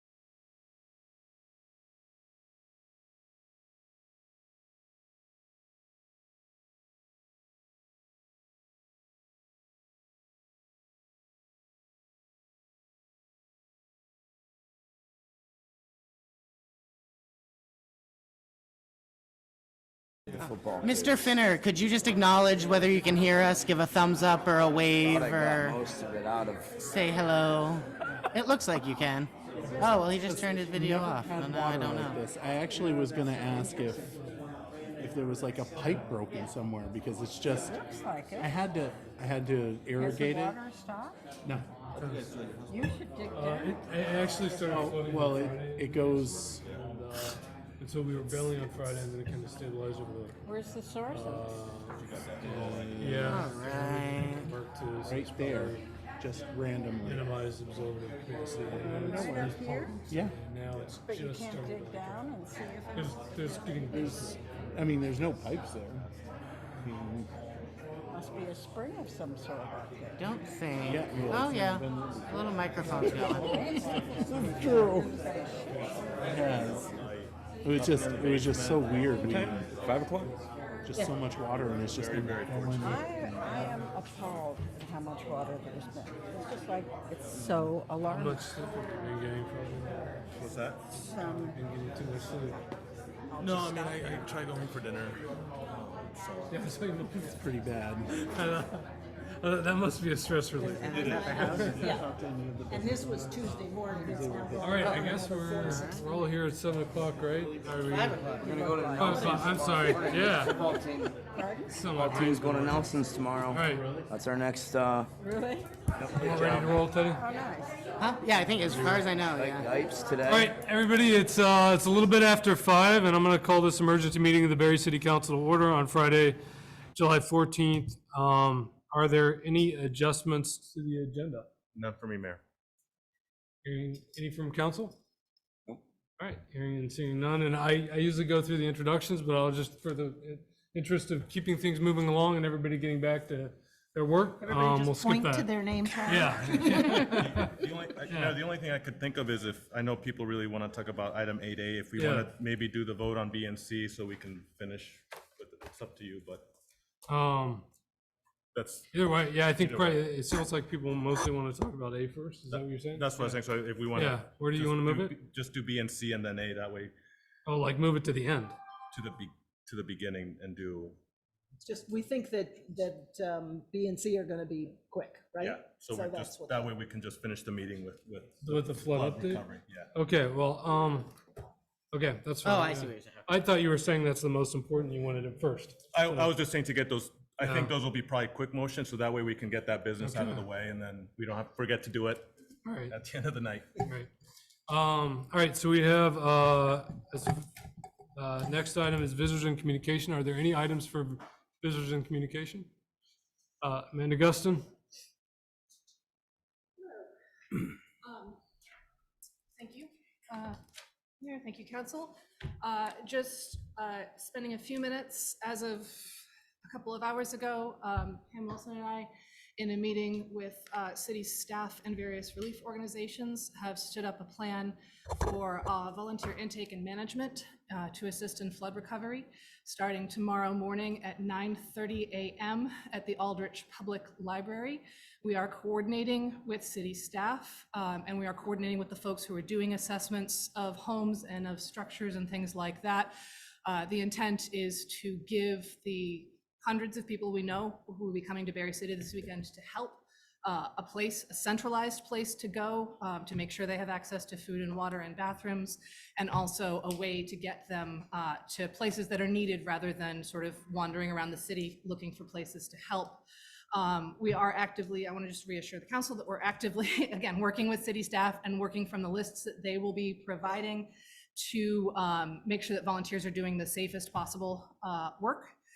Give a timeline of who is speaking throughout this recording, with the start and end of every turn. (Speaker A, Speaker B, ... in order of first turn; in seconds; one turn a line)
Speaker A: 20.4-25.8
Speaker B: 20.4-21.1
Speaker B: 25.0-26.7
Speaker A: 26.8-32.2
Speaker C: 30.0-34.2
Speaker D: 32.7-34.2
Speaker C: 35.0-40.6
Speaker D: 37.5-38.5
Speaker D: 39.9-41.2
Speaker C: 41.4-41.7
Speaker E: 42.0-42.3
Speaker D: 42.7-44.8
Speaker E: 43.3-50.4
Speaker C: 44.7-46.6
Speaker D: 50.4-51.6
Speaker E: 51.1-55.8
Speaker F: 52.1-52.9
Speaker C: 52.4-53.5
Speaker A: 53.2-54.5
Speaker C: 55.0-57.3
Speaker E: 57.0-62.4
Speaker C: 58.7-60.3
Speaker D: 58.8-60.0
Speaker D: 61.0-64.3
Speaker E: 62.9-64.9
Speaker C: 63.9-66.1
Speaker C: 66.8-67.3
Speaker D: 68.1-70.4
Speaker A: 70.2-73.7
Speaker C: 70.8-75.2
Speaker D: 73.0-76.1
Speaker F: 76.1-80.4
Speaker C: 76.2-76.9
Speaker C: 77.6-79.7
Speaker C: 80.8-83.9
Speaker F: 81.8-83.2
Speaker D: 82.8-88.5
Speaker E: 88.0-90.2
Speaker F: 90.4-90.8
Speaker D: 90.9-91.6
Speaker E: 91.3-92.6
Speaker D: 93.3-94.2
Speaker F: 93.4-96.6
Speaker E: 96.5-101.9
Speaker C: 97.2-98.2
Speaker A: 100.8-101.7
Speaker F: 100.8-102.0
Speaker C: 101.2-103.4
Speaker G: 102.8-105.8
Speaker E: 103.2-103.6
Speaker C: 103.9-105.0
Speaker E: 104.5-110.8
Speaker A: 105.6-106.0
Speaker B: 108.4-111.1
Speaker D: 108.4-109.2
Speaker D: 111.3-111.9
Speaker E: 111.7-114.0
Speaker B: 111.9-115.1
Speaker D: 115.2-115.7
Speaker B: 116.0-116.8
Speaker E: 116.0-117.3
Speaker D: 117.1-117.8
Speaker A: 118.0-119.7
Speaker E: 118.6-119.1
Speaker B: 119.3-120.5
Speaker E: 120.2-126.4
Speaker E: 126.9-131.5
Speaker F: 131.7-132.4
Speaker E: 133.6-135.0
Speaker E: 136.2-148.4
Speaker G: 144.5-146.2
Speaker F: 146.4-156.5
Speaker E: 151.9-152.3
Speaker E: 157.1-157.6
Speaker F: 158.5-158.9
Speaker E: 158.9-165.2
Speaker F: 159.5-160.0
Speaker F: 162.5-166.9
Speaker E: 167.4-168.6
Speaker F: 168.9-171.0
Speaker G: 171.6-176.7
Speaker F: 175.4-179.9
Speaker E: 178.4-181.1
Speaker E: 181.9-186.3
Speaker A: 182.4-183.2
Speaker F: 185.9-192.3
Speaker E: 187.4-187.8
Speaker E: 190.0-190.5
Speaker E: 192.6-193.0
Speaker F: 192.9-193.8
Speaker E: 193.8-194.1
Speaker E: 194.7-197.5
Speaker E: 198.2-202.7
Speaker E: 203.6-204.7
Speaker H: 208.0-208.4
Speaker H: 209.6-210.6
Speaker H: 211.2-243.1
Speaker H: 243.7-275.5